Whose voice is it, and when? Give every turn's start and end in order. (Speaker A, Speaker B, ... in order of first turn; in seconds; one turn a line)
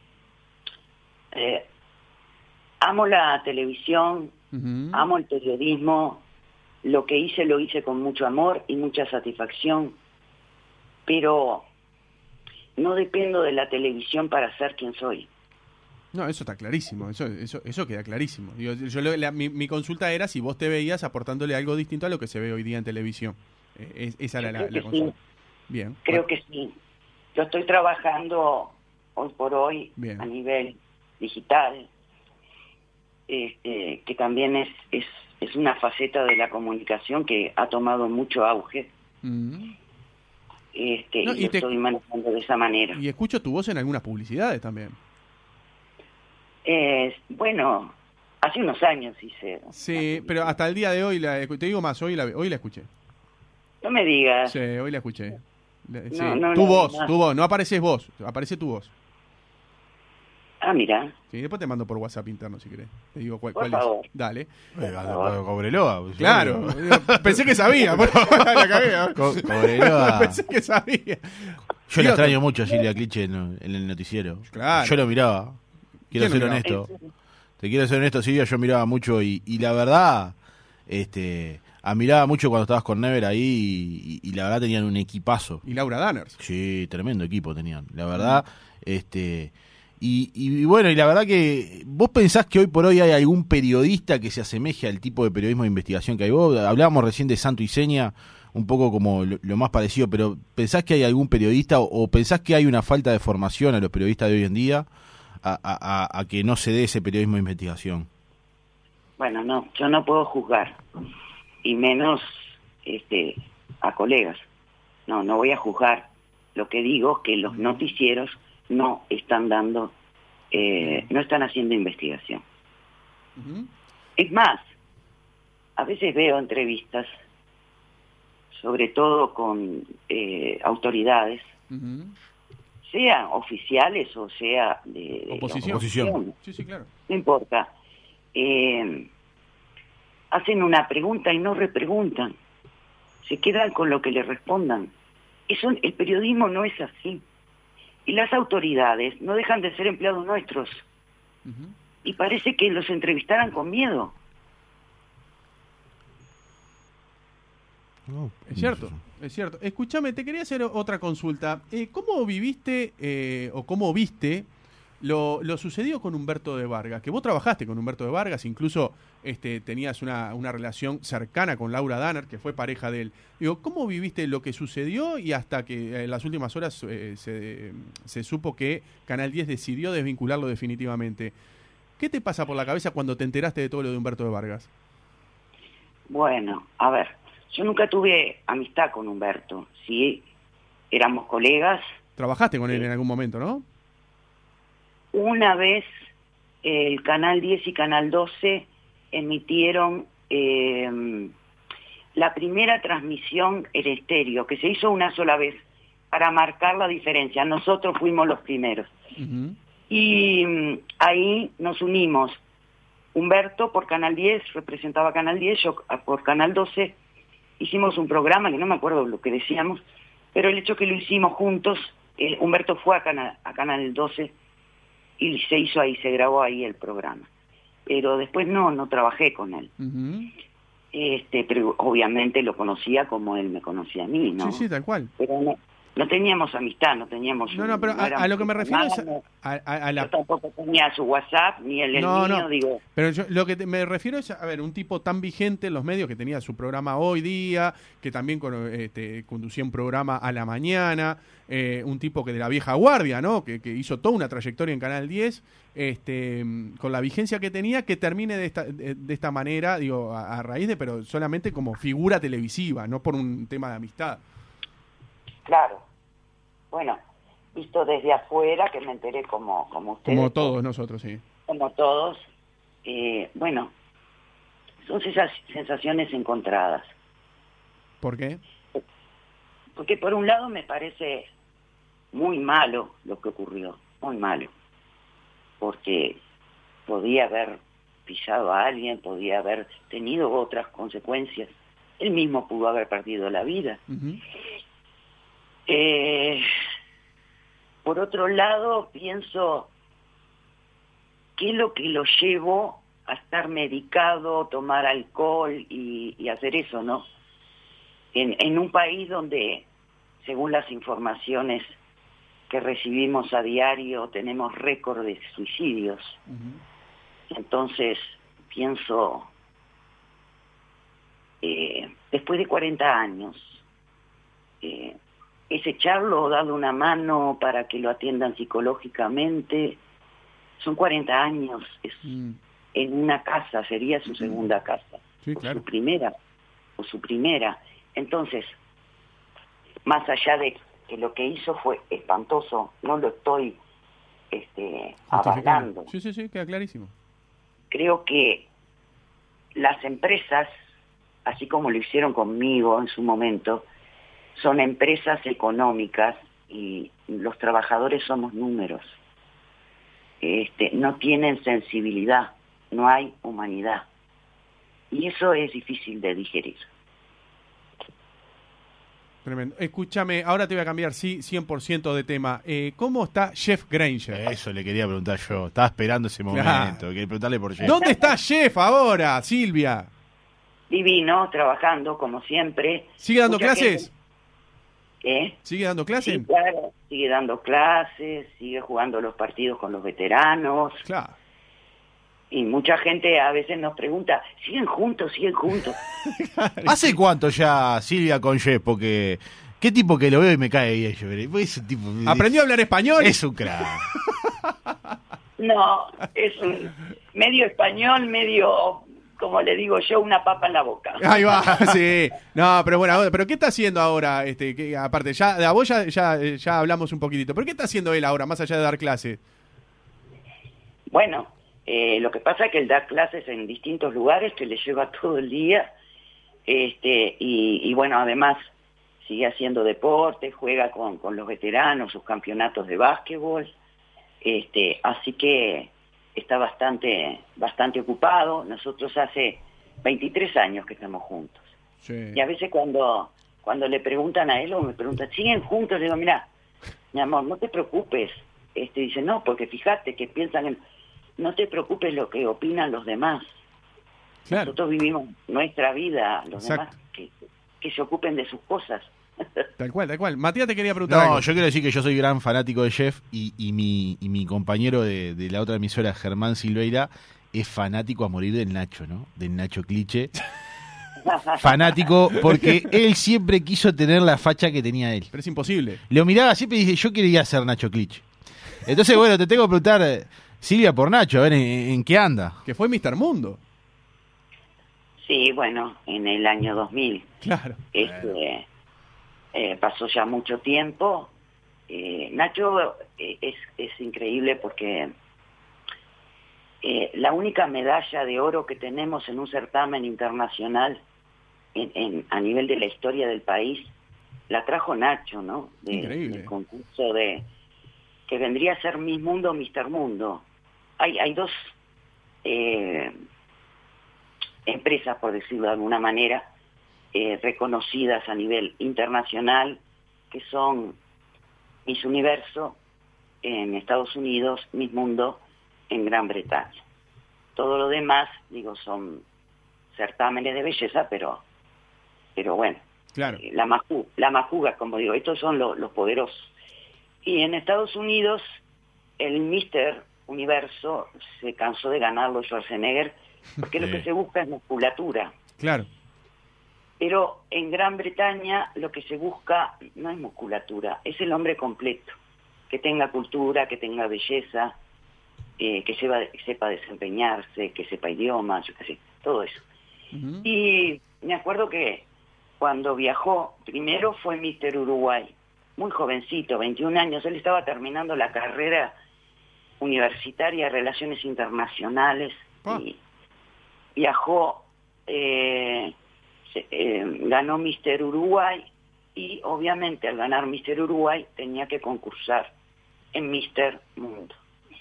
Speaker A: 1.3-1.7
Speaker A: 2.8-4.3
Speaker B: 4.5-5.0
Speaker A: 4.9-6.2
Speaker A: 6.8-9.9
Speaker A: 11.1-11.7
Speaker A: 12.8-15.3
Speaker B: 16.1-25.1
Speaker A: 24.4-25.1
Speaker B: 25.7-26.2
Speaker A: 26.1-26.7
Speaker A: 27.3-31.9
Speaker B: 30.0-30.3
Speaker A: 33.3-38.9
Speaker B: 39.2-39.7
Speaker A: 40.7-43.0
Speaker B: 41.2-41.7
Speaker B: 42.9-45.0
Speaker A: 46.6-50.5
Speaker B: 49.7-52.9
Speaker A: 53.8-54.5
Speaker B: 54.5-58.9
Speaker A: 56.1-57.1
Speaker A: 60.6-61.1
Speaker B: 61.3-64.5
Speaker A: 63.5-64.1
Speaker C: 64.7-70.4
Speaker A: 65.0-65.4
Speaker B: 66.2-72.4
Speaker C: 71.9-75.6
Speaker B: 74.5-75.0
Speaker B: 76.1-76.6
Speaker C: 76.1-76.9
Speaker A: 76.6-77.0
Speaker C: 77.6-80.3
Speaker C: 80.9-85.6
Speaker B: 85.6-86.4
Speaker C: 86.4-104.9
Speaker B: 88.2-88.4
Speaker C: 105.4-108.1
Speaker A: 109.2-110.8
Speaker A: 111.6-114.4
Speaker A: 115.1-119.9
Speaker B: 117.5-117.9
Speaker A: 120.5-122.4
Speaker B: 120.8-121.1
Speaker B: 123.3-123.7
Speaker A: 124.2-124.6
Speaker A: 125.8-127.1
Speaker A: 128.5-131.5
Speaker B: 131.7-132.2
Speaker A: 132.8-136.3
Speaker B: 135.3-136.9
Speaker C: 135.7-136.2
Speaker A: 137.1-137.7
Speaker A: 138.3-139.1
Speaker A: 140.3-142.3
Speaker A: 143.2-144.9
Speaker A: 145.5-147.2
Speaker A: 148.1-150.8
Speaker B: 151.4-151.7
Speaker A: 152.0-154.1
Speaker C: 158.1-158.9
Speaker B: 158.5-164.5
Speaker B: 165.0-181.3
Speaker B: 182.0-184.7
Speaker A: 186.1-190.2
Speaker A: 190.9-191.8
Speaker B: 192.2-193.6
Speaker A: 195.1-195.9
Speaker A: 196.6-201.3
Speaker A: 202.1-208.9
Speaker B: 209.2-209.6
Speaker A: 209.9-212.4
Speaker A: 213.1-217.0
Speaker A: 217.6-219.8
Speaker A: 220.3-224.3
Speaker A: 225.2-227.3
Speaker A: 227.9-229.7
Speaker B: 229.8-230.3
Speaker A: 230.9-234.7
Speaker B: 234.4-235.1
Speaker A: 235.2-239.2
Speaker B: 237.5-240.1
Speaker A: 240.0-242.8
Speaker B: 241.9-264.2
Speaker A: 265.4-265.9
Speaker A: 266.7-267.0
Speaker A: 267.5-270.5
Speaker B: 270.1-271.2
Speaker A: 271.4-272.2
Speaker A: 272.8-273.7
Speaker A: 274.8-276.9
Speaker B: 278.0-278.4
Speaker A: 279.8-281.3
Speaker A: 282.1-284.5
Speaker A: 285.6-286.2
Speaker A: 286.9-293.8
Speaker B: 293.9-294.2
Speaker A: 295.7-296.5
Speaker A: 297.8-299.7
Speaker A: 301.4-307.1
Speaker A: 308.1-309.7
Speaker A: 310.2-311.8
Speaker A: 312.5-316.2
Speaker B: 316.3-316.6
Speaker A: 317.3-319.3
Speaker A: 321.4-323.6
Speaker A: 324.6-325.0
Speaker A: 325.5-329.8
Speaker A: 330.6-332.1
Speaker B: 332.1-332.4
Speaker A: 332.7-336.1
Speaker B: 335.2-335.6
Speaker A: 336.8-338.6
Speaker A: 339.8-343.6
Speaker A: 344.3-345.9
Speaker B: 345.1-346.9
Speaker A: 347.7-348.5
Speaker A: 349.6-350.5
Speaker A: 351.2-353.6
Speaker A: 354.3-358.9
Speaker A: 360.2-363.9
Speaker A: 364.9-366.7
Speaker B: 369.2-374.2
Speaker C: 374.1-377.8
Speaker B: 376.3-376.8
Speaker B: 377.6-379.9
Speaker A: 377.6-378.1
Speaker A: 380.7-383.9
Speaker B: 383.0-383.9
Speaker A: 385.0-385.4
Speaker B: 385.4-386.3
Speaker A: 386.0-390.8
Speaker B: 390.8-391.1
Speaker A: 392.3-395.8
Speaker B: 396.0-397.0
Speaker C: 396.6-402.3
Speaker B: 402.0-404.3
Speaker C: 403.0-403.9
Speaker A: 405.4-411.2
Speaker B: 411.0-419.2
Speaker A: 420.9-425.7
Speaker A: 426.5-428.4
Speaker A: 429.0-433.5
Speaker A: 434.2-441.4
Speaker B: 441.8-442.2
Speaker A: 442.1-446.3
Speaker A: 446.9-450.6
Speaker A: 451.2-453.3
Speaker B: 454.3-454.5
Speaker A: 454.3-459.5
Speaker B: 456.4-456.7
Speaker B: 459.6-461.2
Speaker C: 460.9-470.1
Speaker A: 471.1-471.4
Speaker C: 471.4-475.1
Speaker B: 475.1-475.8
Speaker C: 475.9-478.1
Speaker C: 478.6-482.4
Speaker B: 482.4-483.4
Speaker A: 485.0-487.1
Speaker B: 487.2-487.6
Speaker A: 487.7-488.5
Speaker C: 487.8-488.1
Speaker A: 489.3-491.1
Speaker A: 491.7-494.9
Speaker A: 496.6-500.8
Speaker A: 501.5-503.7
Speaker A: 504.3-507.2
Speaker B: 505.7-506.3
Speaker A: 508.1-510.2
Speaker A: 510.8-511.5
Speaker A: 512.2-513.0
Speaker A: 514.5-516.3
Speaker A: 516.9-520.8
Speaker A: 521.6-522.6
Speaker A: 523.2-526.6
Speaker A: 527.4-529.0
Speaker A: 529.7-531.2
Speaker A: 532.1-532.6
Speaker B: 532.9-533.2
Speaker A: 533.2-536.3
Speaker A: 537.0-538.2
Speaker A: 539.0-545.1
Speaker C: 543.6-543.8
Speaker B: 545.4-545.7
Speaker A: 546.8-552.0
Speaker A: 552.5-554.5
Speaker A: 555.4-559.4
Speaker B: 559.9-560.3
Speaker A: 560.2-561.8
Speaker A: 562.4-568.7
Speaker A: 569.6-572.8
Speaker A: 573.8-575.7
Speaker A: 576.3-582.3
Speaker A: 582.9-584.1